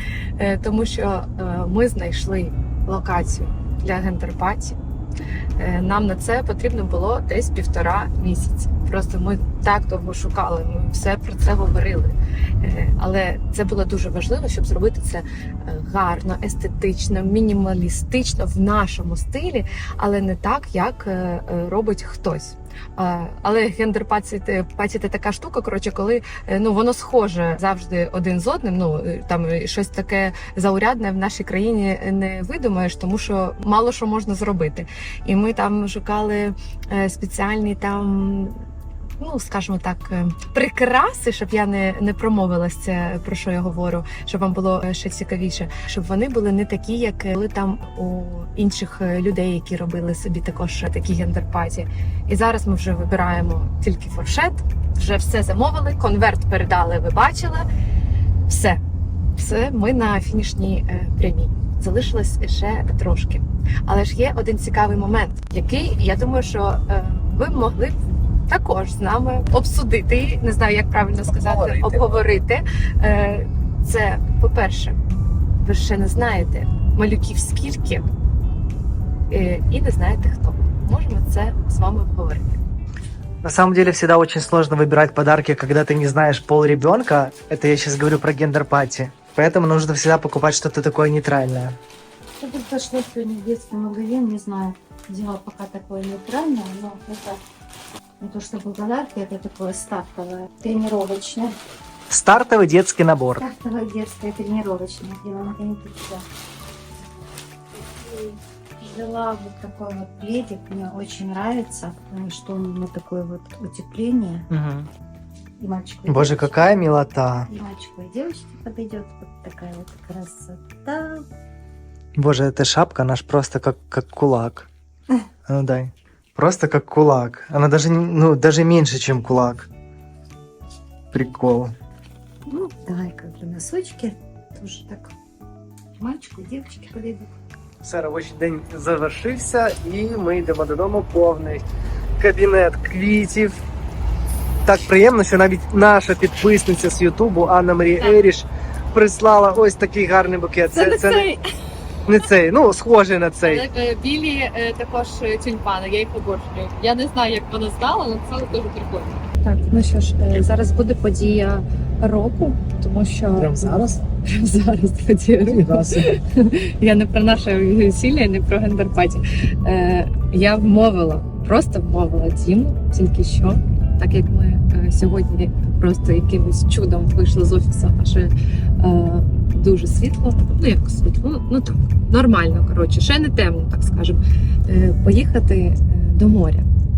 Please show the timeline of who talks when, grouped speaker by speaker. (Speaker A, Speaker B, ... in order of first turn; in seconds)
Speaker A: 0.4-4.8, 5.6-38.6, 39.2-57.7, 58.5-58.8, 59.4-75.0, 75.6-78.1, 79.3-82.6, 148.0-148.3, 150.7-151.4, 153.4-186.7
Speaker B: 71.3-72.1, 137.8-141.6, 142.2-143.6, 144.7-151.3, 152.1-153.7
Speaker C: 83.4-91.8, 102.1-103.4, 114.5-114.9, 116.1-117.5, 122.2-124.7, 125.5-129.7, 131.1-131.7, 163.4-164.0, 165.5-166.0
Speaker D: 92.4-97.4, 98.2-101.6, 103.4-106.2, 107.7-114.5, 115.6-116.7, 117.5-121.3, 132.5-135.1, 136.0-137.3